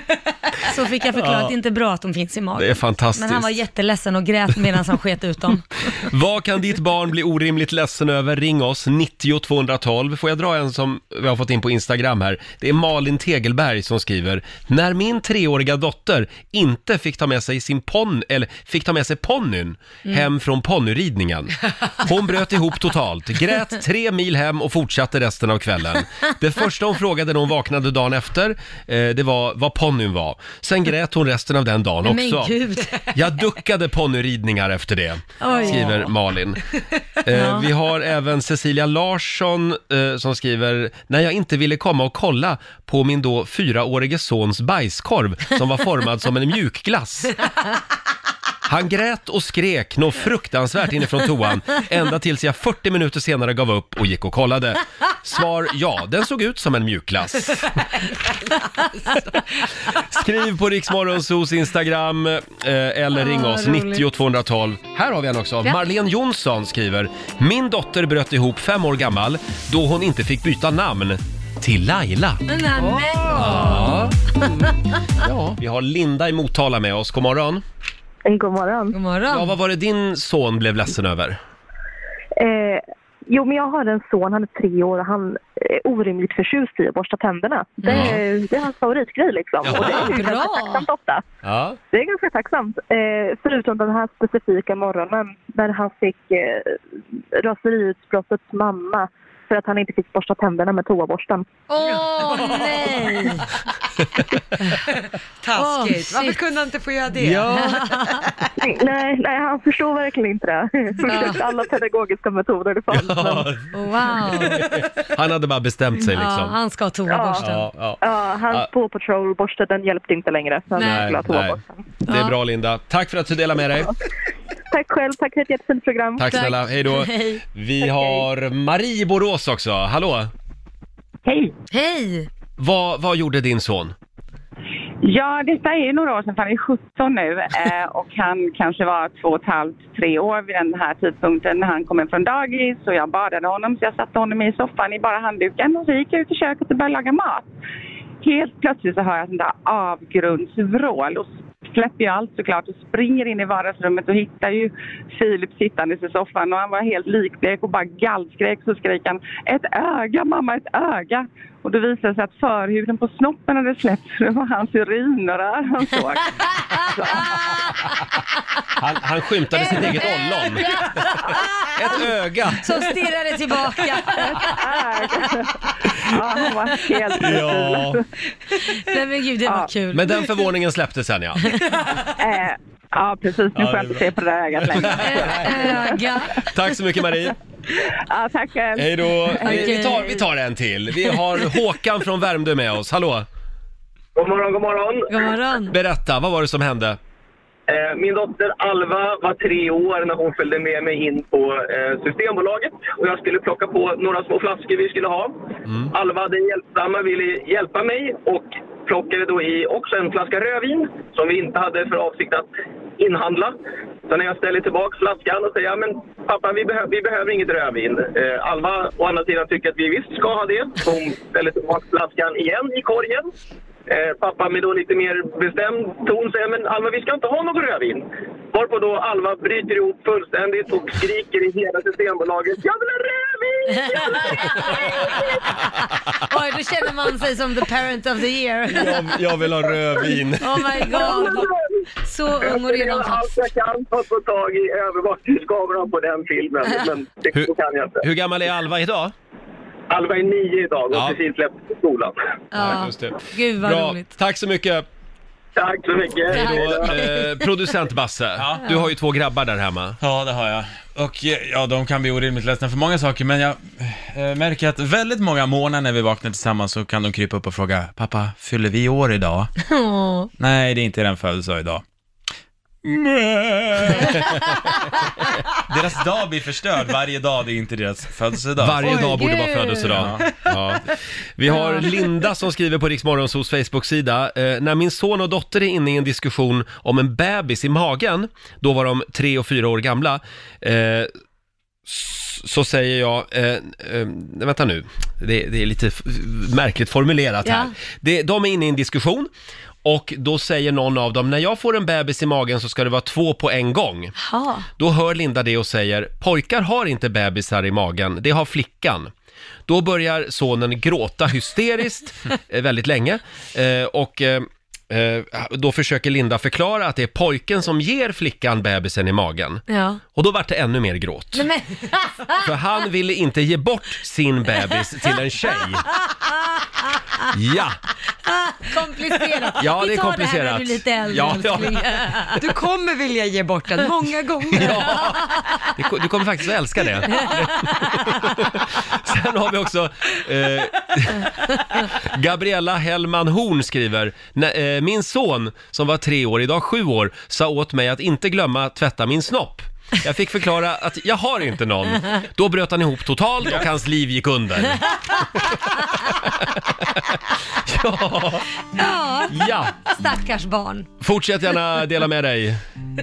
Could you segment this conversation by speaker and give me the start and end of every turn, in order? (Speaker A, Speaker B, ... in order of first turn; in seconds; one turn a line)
Speaker A: 0.6-5.6
Speaker B: 1.1-1.5
Speaker B: 2.6-3.5
Speaker B: 5.9-36.6
Speaker A: 32.0-33.1
Speaker A: 35.4-36.1
Speaker B: 37.2-47.4
Speaker A: 37.3-37.7
Speaker B: 48.6-57.7
Speaker B: 59.9-72.5
Speaker A: 63.1-64.0
Speaker A: 72.5-74.7
Speaker C: 72.8-73.1
Speaker B: 73.3-74.2
Speaker B: 75.2-77.6
Speaker D: 78.2-79.0
Speaker A: 78.9-79.5
Speaker B: 79.3-81.4
Speaker D: 82.4-91.2
Speaker A: 87.8-88.2
Speaker B: 87.9-88.2
Speaker B: 89.6-90.1
Speaker A: 89.7-90.8
Speaker B: 91.4-91.8
Speaker D: 91.9-96.8
Speaker D: 97.4-101.5
Speaker A: 101.7-103.5
Speaker C: 102.2-103.3
Speaker C: 105.4-107.7
Speaker A: 105.6-106.4
Speaker B: 107.2-107.8
Speaker A: 107.5-108.3
Speaker D: 108.6-113.6
Speaker A: 111.0-111.4
Speaker B: 112.9-113.7
Speaker A: 113.7-114.7
Speaker B: 114.2-116.5
Speaker A: 116.0-117.7
Speaker D: 117.1-117.4
Speaker B: 117.4-118.7
Speaker D: 118.0-121.8
Speaker A: 120.8-121.1
Speaker B: 120.8-123.9
Speaker A: 122.1-122.3
Speaker D: 124.7-126.4
Speaker B: 126.2-130.3
Speaker A: 126.3-127.4
Speaker D: 127.8-128.2
Speaker E: 131.2-131.5
Speaker A: 131.7-132.3
Speaker B: 132.6-133.9
Speaker E: 135.0-147.5
Speaker E: 148.2-167.3
Speaker A: 166.4-168.0
Speaker B: 168.8-172.8
Speaker A: 169.5-172.0
Speaker A: 172.5-175.3
Speaker E: 174.2-178.0
Speaker B: 177.2-178.0
Speaker A: 178.7-180.4
Speaker B: 179.9-181.6
Speaker A: 181.4-181.8
Speaker E: 182.1-185.9
Speaker B: 183.5-185.8
Speaker A: 184.9-186.7
Speaker B: 186.4-187.3
Speaker E: 188.1-190.2
Speaker B: 188.7-193.3
Speaker A: 189.4-190.1
Speaker F: 194.2-195.3
Speaker A: 195.1-195.7
Speaker B: 195.7-197.0
Speaker F: 197.7-213.6
Speaker B: 205.7-205.9
Speaker F: 214.1-223.3
Speaker F: 223.9-235.5
Speaker A: 233.7-235.1
Speaker A: 235.9-239.3
Speaker B: 238.7-240.7
Speaker A: 239.9-243.3
Speaker F: 240.8-241.5
Speaker F: 242.4-248.0
Speaker B: 247.3-249.1
Speaker F: 249.9-252.1
Speaker B: 250.9-251.2
Speaker A: 252.5-254.1
Speaker B: 252.5-254.8
Speaker F: 255.6-256.9
Speaker B: 256.3-260.0
Speaker A: 256.3-257.5
Speaker G: 258.4-258.6
Speaker G: 260.0-269.5
Speaker A: 269.6-270.3
Speaker G: 270.4-271.8
Speaker G: 272.8-274.4
Speaker G: 275.6-279.0
Speaker B: 278.6-291.1
Speaker A: 278.9-280.0
Speaker G: 279.9-280.2
Speaker A: 281.5-282.0
Speaker B: 291.9-299.3
Speaker A: 297.4-297.7
Speaker B: 299.8-304.1
Speaker A: 304.2-304.7
Speaker B: 304.8-309.1
Speaker B: 309.7-321.4
Speaker A: 319.7-320.0
Speaker A: 321.4-322.4
Speaker B: 322.4-325.9
Speaker A: 326.0-327.2
Speaker B: 327.3-327.8
Speaker A: 328.2-332.4
Speaker B: 329.5-332.2
Speaker C: 332.4-335.0
Speaker B: 334.5-358.5
Speaker A: 337.2-338.1
Speaker A: 358.7-360.9
Speaker B: 359.3-359.8
Speaker B: 361.0-362.6